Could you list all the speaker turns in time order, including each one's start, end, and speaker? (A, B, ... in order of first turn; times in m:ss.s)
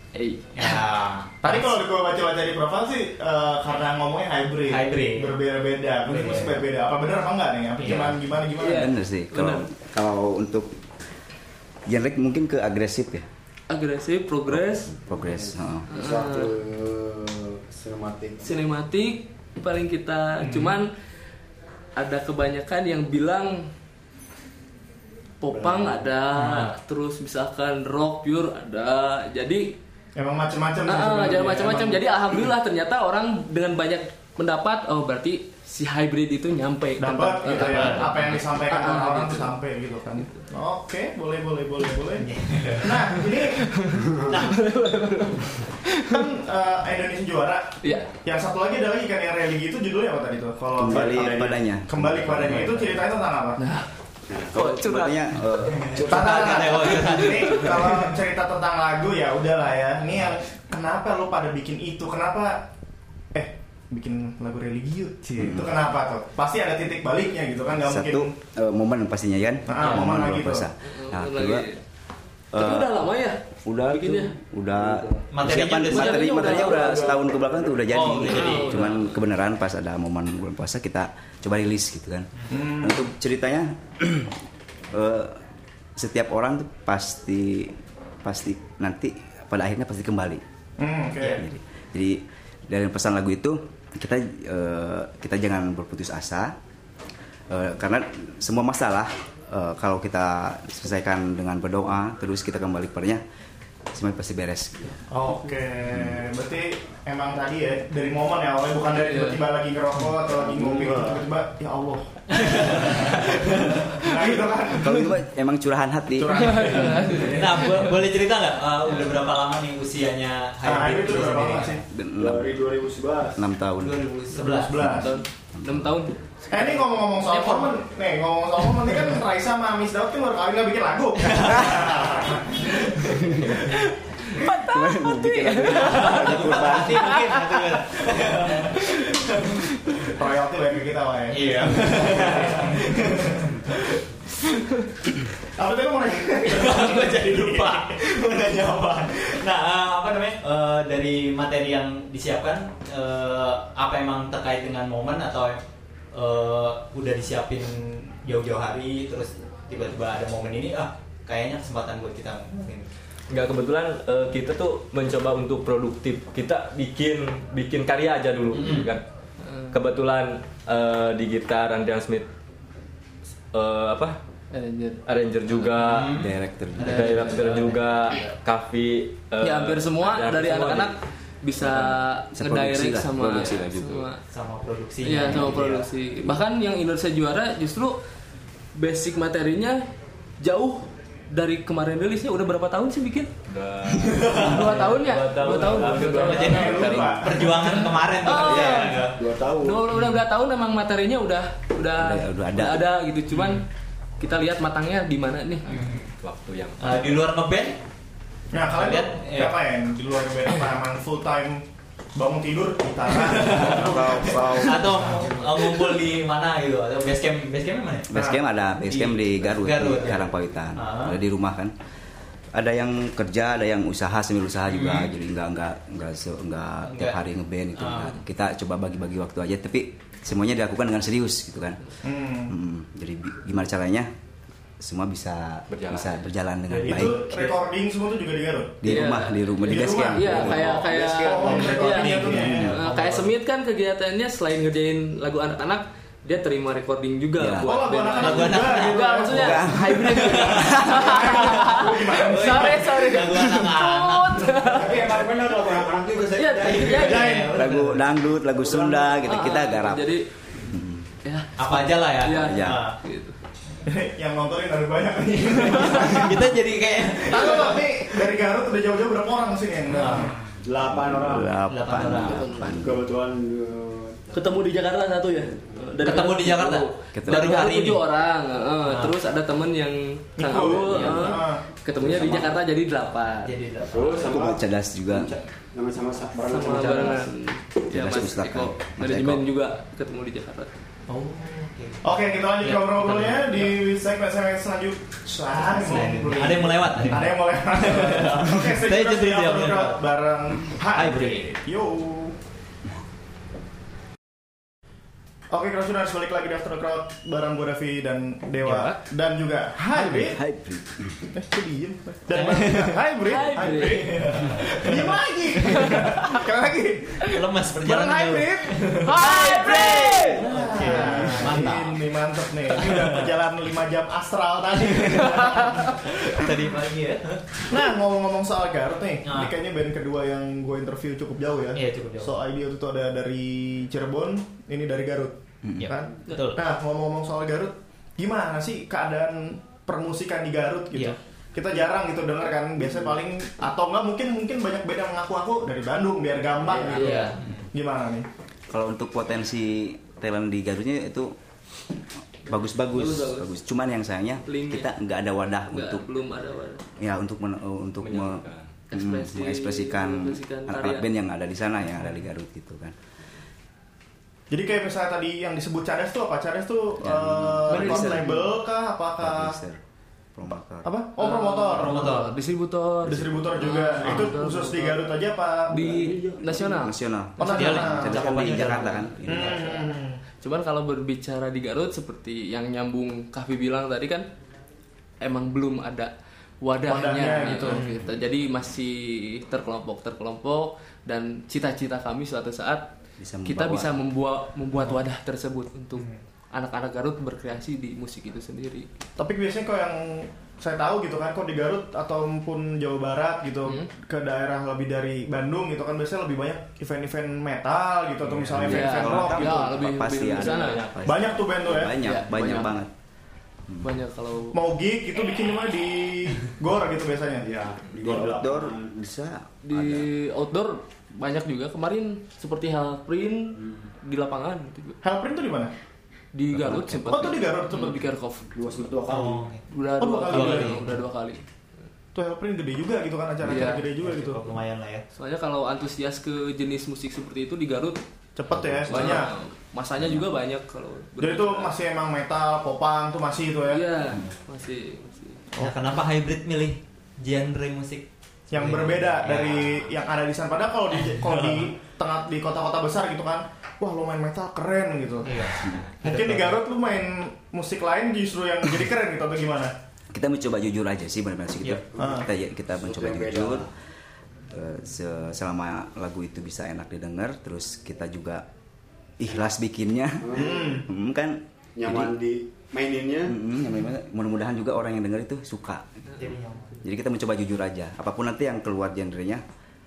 0:00.1-0:00.8 A
0:00.5-0:01.8 B
0:01.4-0:08.9 C
0:04.7-0:05.4 B
0:06.0-0:06.6 B
0:07.8-0:08.2 B
0:08.6-0:09.6 A
0:08.7-0:10.8 D
0:11.8-0:13.3 D
0:13.7-0:14.9 A
0:14.5-0:15.9 D
0:15.1-0:18.5 E
0:15.9-0:16.5 A
0:18.4-0:20.9 A
0:20.4-0:20.8 B
0:22.0-0:23.7 A
0:25.4-0:29.8 A
0:25.5-0:26.1 E
0:26.4-0:26.7 B
0:30.2-0:32.0 C
0:30.8-0:39.6 A
0:37.0-0:43.8 C
0:37.6-0:38.2 B
0:42.2-0:43.0 B
0:43.8-0:46.3 A
0:44.3-0:44.6 B
0:46.0-0:53.6 C
0:47.8-0:48.1 A
0:50.8-0:53.1 D
0:50.9-0:51.6 E
0:52.4-0:52.8 E
0:53.6-0:53.9 A
0:54.3-0:56.9 D
0:54.4-0:55.4 A
0:55.8-0:58.2 B
0:56.0-1:02.6 C
1:03.3-1:08.3 C
1:05.4-1:05.8 D
1:07.8-1:11.7 D
1:09.7-1:10.7 C
1:10.8-1:11.8 A
1:12.5-1:13.0 D
1:12.5-1:14.4 A
1:13.6-1:24.4 D
1:14.8-1:15.2 E
1:15.3-1:16.7 B
1:15.8-1:16.9 A
1:16.5-1:17.8 E
1:17.8-1:18.9 B
1:18.0-1:19.2 A
1:22.5-1:23.0 C
1:24.9-1:25.4 D
1:26.0-1:30.4 D
1:30.8-1:31.4 C
1:31.3-1:36.6 D
1:37.5-1:43.2 D
1:43.9-1:45.0 D
1:45.1-1:55.1 C
1:48.9-1:49.4 A
1:50.3-1:51.2 E
1:52.3-1:53.8 B
1:54.8-1:56.7 D
1:56.2-1:57.4 C
1:56.4-1:57.9 A
1:57.2-2:01.8 B
2:00.6-2:01.8 C
2:01.9-2:02.6 D
2:02.2-2:03.4 E
2:03.3-2:04.0 D
2:03.8-2:05.0 B
2:04.5-2:05.1 C
2:04.8-2:07.8 A
2:05.6-2:05.9 D
2:06.5-2:13.2 C
2:11.2-2:12.2 B
2:12.8-2:13.4 B
2:13.7-2:17.6 A
2:14.4-2:17.2 D
2:15.8-2:19.6 B
2:19.2-2:20.0 A
2:20.1-2:23.0 C
2:21.3-2:23.8 B
2:25.6-2:27.9 C
2:26.4-2:35.6 B
2:36.1-2:42.9 B
2:43.3-2:49.0 F
2:48.5-2:48.9 B
2:49.4-2:49.7 A
2:49.7-2:52.3 F
2:53.5-2:54.2 F
2:54.5-2:55.0 A
2:55.0-2:56.3 F
2:55.8-2:58.3 B
2:56.1-2:57.2 D
2:56.8-3:01.0 F
2:59.4-3:04.2 A
3:01.6-3:02.0 F
3:02.3-3:04.1 D
3:04.3-3:05.9 B
3:05.0-3:08.0 A
3:08.8-3:09.9 A
3:10.4-3:13.3 A
3:13.5-3:16.6 F
3:14.0-3:14.8 B
3:14.2-3:23.6 A
3:15.8-3:19.2 B
3:16.4-3:17.6 C
3:19.1-3:19.9 E
3:22.0-3:22.9 D
3:24.2-3:25.8 A
3:25.6-3:26.1 B
3:26.2-3:27.3 F
3:26.8-3:27.8 B
3:28.5-3:34.9 C
3:28.7-3:29.6 B
3:33.1-3:38.1 B
3:33.6-3:35.0 D
3:38.1-3:41.7 D
3:38.1-3:38.4 C
3:38.8-3:41.2 B
3:42.5-3:51.8 D
3:44.7-3:45.1 B
3:46.8-3:47.2 B
3:47.8-3:48.1 B
3:52.0-3:52.5 C
3:52.5-3:54.1 D
3:54.8-3:57.2 D
3:55.7-3:56.2 F
3:56.8-3:58.9 C
3:56.9-3:57.6 B
3:58.8-4:00.8 D
3:58.8-4:15.0 A
3:59.6-4:02.7 C
4:01.5-4:03.3 B
4:02.4-4:02.8 D
4:07.4-4:07.8 D
4:07.6-4:09.9 C
4:08.1-4:09.3 B
4:09.3-4:11.2 D
4:10.0-4:14.9 B
4:11.0-4:13.0 C
4:14.7-4:17.5 E
4:16.4-4:17.5 A
4:16.5-4:18.0 B
4:17.5-4:21.1 D
4:18.5-4:19.2 E
4:19.2-4:20.3 A
4:21.2-4:23.4 A
4:21.6-4:23.0 B
4:22.4-4:22.8 D
4:23.9-4:26.6 C
4:25.6-4:27.9 B
4:27.2-4:30.5 C
4:29.9-4:30.3 B
4:30.6-4:31.6 E
4:30.8-4:33.0 D
4:31.6-4:32.5 B
4:32.2-4:32.8 A
4:32.8-4:34.5 E
4:34.3-4:43.5 A
4:35.5-4:35.8 E
4:36.0-4:38.0 B
4:37.1-4:37.5 D
4:38.9-4:39.1 B
4:40.4-4:41.6 C
4:40.6-4:41.2 E
4:40.8-4:41.4 B
4:42.0-4:42.5 E
4:43.4-4:44.4 B
4:43.8-4:47.3 E
4:44.2-4:45.3 D
4:46.5-4:50.7 A
4:47.9-4:49.4 D
4:51.1-4:52.1 B
4:52.0-5:02.4 C
4:52.6-4:53.3 A
4:55.6-5:00.0 B
5:00.9-5:01.6 B
5:05.5-5:10.4 C
5:09.9-5:11.2 D
5:11.3-5:26.5 C
5:12.3-5:13.0 B
5:13.2-5:14.7 A
5:14.1-5:15.0 B
5:15.6-5:16.3 A
5:17.3-5:22.0 B
5:19.0-5:20.6 A
5:22.8-5:23.2 B
5:26.0-5:27.7 B
5:27.7-5:48.3 C
5:29.2-5:29.5 B
5:31.7-5:32.3 B
5:35.8-5:36.6 B
5:46.8-5:47.6 B
5:46.9-5:47.4 A
5:48.7-5:51.3 D
5:52.4-5:56.0 D
5:52.9-5:53.5 A
5:54.4-5:54.9 A
5:55.7-5:56.9 A
5:57.0-6:03.0 D
5:58.0-5:58.7 F
5:58.9-6:01.1 A
6:04.5-6:09.6 C
6:07.0-6:08.4 D
6:09.2-6:09.8 D
6:10.4-6:10.9 D
6:10.8-6:12.2 C
6:11.2-6:15.0 A
6:11.7-6:12.3 B
6:13.0-6:15.9 C
6:14.0-6:14.3 B
6:15.7-6:17.0 A
6:15.9-6:16.8 E
6:16.7-6:19.7 D
6:17.4-6:18.3 C
6:17.4-6:19.2 B
6:19.2-6:20.2 C
6:20.4-6:24.2 A
6:25.2-6:32.9 A
6:26.9-6:27.9 C
6:33.2-6:34.0 D
6:33.4-6:38.9 A
6:36.0-6:36.2 B
6:39.2-6:49.6 C
6:43.6-6:43.9 A
6:48.4-6:52.9 D
6:48.6-6:50.8 A
6:50.3-6:51.2 F
6:51.0-6:52.0 C
6:52.0-6:52.8 A
6:53.8-6:54.6 A
6:54.5-6:57.5 C
6:57.4-6:59.0 E
6:58.0-7:00.1 D
6:59.6-7:05.0 A
7:03.6-7:03.9 E
7:05.0-7:05.7 C
7:06.3-7:08.5 A
7:06.5-7:07.3 D
7:07.1-7:08.0 C
7:08.5-7:09.5 E
7:09.1-7:09.6 B
7:09.7-7:11.4 A
7:10.0-7:11.0 C
7:10.3-7:10.8 B
7:12.1-7:14.4 C
7:13.4-7:13.8 A
7:13.6-7:15.0 B
7:15.1-7:18.0 A
7:18.4-7:19.3 C
7:18.5-7:18.9 D
7:18.9-7:21.8 A
7:21.2-7:23.8 C
7:23.7-7:25.4 A
7:25.6-7:29.9 B
7:28.5-7:35.5 C
7:30.9-7:31.7 B
7:35.2-7:36.6 B
7:36.0-7:39.7 C
7:40.1-7:43.7 D
7:42.0-7:42.3 C
7:42.8-7:43.7 E
7:44.5-7:48.4 D
7:49.2-7:52.2 D
7:50.2-7:50.7 E
7:50.4-7:50.8 C
7:51.8-7:53.4 E
7:53.2-7:56.3 D
7:56.2-7:56.8 B
7:56.8-7:59.4 D